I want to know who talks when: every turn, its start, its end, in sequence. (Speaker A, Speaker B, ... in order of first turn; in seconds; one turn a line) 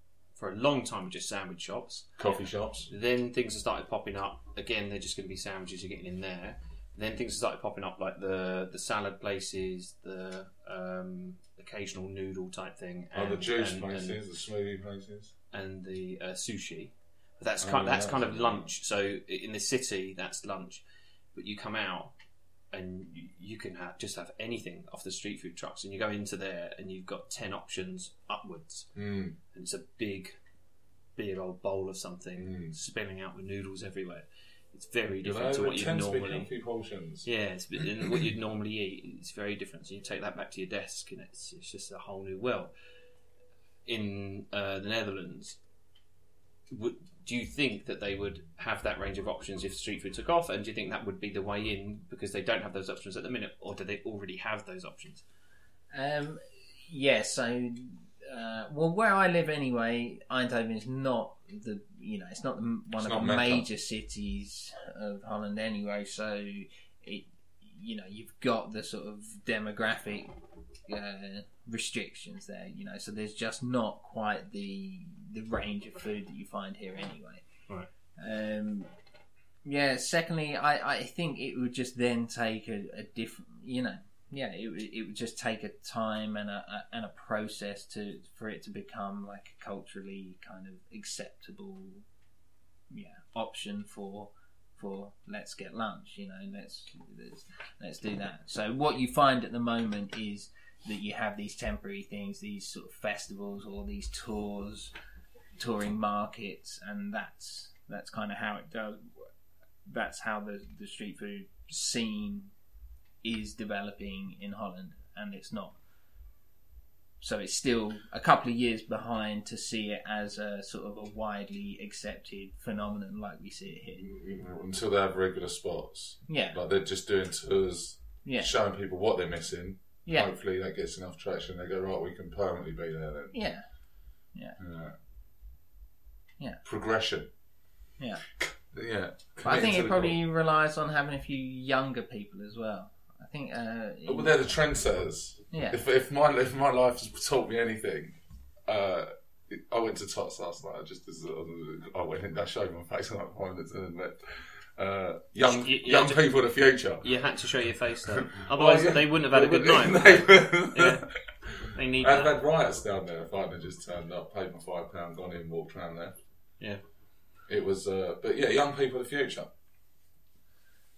Speaker A: 0.4-2.1
Speaker B: 2.2-2.9
Speaker A: 2.9-14.2
Speaker B: 13.2-15.3
Speaker A: 15.5-20.8
Speaker B: 17.6-18.7
Speaker A: 21.4-22.1
Speaker A: 22.7-28.9
Speaker B: 28.9-29.4
Speaker A: 29.5-30.4
Speaker A: 31.2-36.5
Speaker B: 32.4-32.7
Speaker B: 35.2-37.3
Speaker A: 37.2-42.7
Speaker A: 43.9-45.6
Speaker A: 46.7-55.2
Speaker C: 55.9-70.3
Speaker B: 63.0-63.7
Speaker C: 70.9-77.4
Speaker C: 78.2-78.9
Speaker C: 79.7-92.0
Speaker C: 92.9-104.9
Speaker C: 105.6-109.1
Speaker C: 109.9-112.5
Speaker C: 113.2-115.8
Speaker C: 117.2-124.1
Speaker B: 124.0-133.3
Speaker C: 126.3-126.6
Speaker C: 128.2-128.5
Speaker C: 133.3-133.6
Speaker B: 134.6-134.9
Speaker B: 136.7-137.3
Speaker B: 138.4-140.2
Speaker C: 139.4-144.3
Speaker B: 144.1-157.0
Speaker C: 145.5-145.8
Speaker A: 155.4-156.2
Speaker A: 157.0-161.1
Speaker B: 158.2-166.2
Speaker A: 161.7-162.3
Speaker B: 167.5-169.5